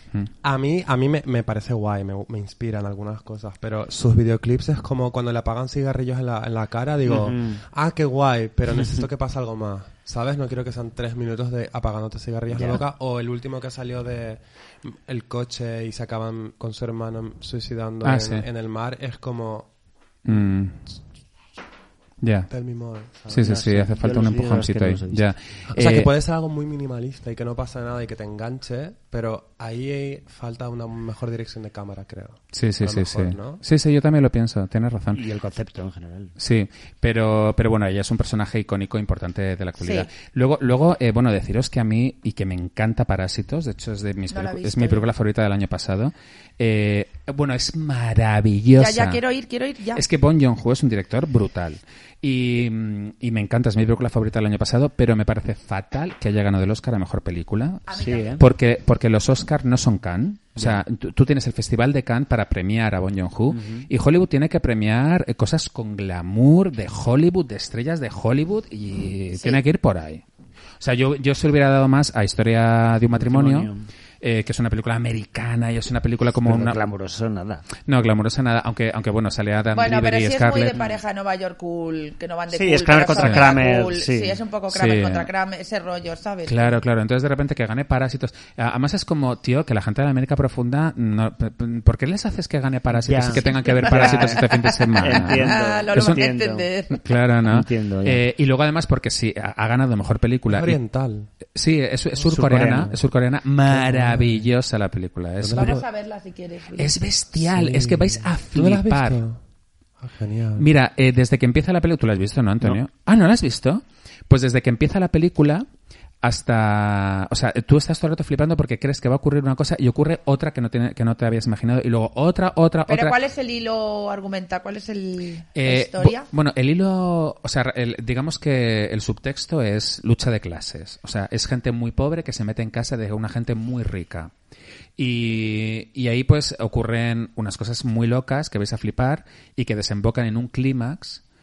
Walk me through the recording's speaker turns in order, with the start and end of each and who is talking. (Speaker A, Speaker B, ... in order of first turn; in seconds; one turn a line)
Speaker A: 0.4-19.7
Speaker B: 7.0-7.6
Speaker B: 8.7-9.1
Speaker B: 12.5-12.8
Speaker C: 18.0-18.4
Speaker C: 20.2-20.8
Speaker C: 22.2-22.5
Speaker A: 22.5-23.5
Speaker C: 23.3-26.1
Speaker B: 23.3-25.2
Speaker A: 25.7-33.6
Speaker C: 32.5-35.2
Speaker B: 35.1-36.3
Speaker C: 36.4-49.2
Speaker D: 39.8-40.1
Speaker D: 44.3-45.1
Speaker D: 48.8-50.0
Speaker C: 49.9-70.2
Speaker D: 57.9-58.4
Speaker B: 58.0-58.4
Speaker B: 60.6-60.8
Speaker B: 63.5-63.9
Speaker D: 69.3-69.6
Speaker C: 70.8-76.8
Speaker B: 73.2-73.9
Speaker B: 76.4-77.7
Speaker C: 77.9-80.8
Speaker D: 79.7-86.8
Speaker B: 80.7-81.0
Speaker B: 82.5-84.4
Speaker C: 83.2-83.5
Speaker C: 84.7-85.3
Speaker C: 86.5-96.2
Speaker B: 92.9-96.7
Speaker D: 93.3-97.0
Speaker C: 96.9-100.8
Speaker B: 97.5-98.2
Speaker A: 100.5-101.3
Speaker C: 101.5-105.8
Speaker B: 102.2-103.0
Speaker A: 103.7-104.5
Speaker A: 105.4-105.8
Speaker D: 105.5-107.0
Speaker C: 106.8-109.2
Speaker A: 107.4-109.4
Speaker A: 110.0-110.7
Speaker C: 110.6-115.7
Speaker C: 116.2-123.2
Speaker D: 122.9-126.3
Speaker C: 125.5-134.3
Speaker C: 135.0-141.2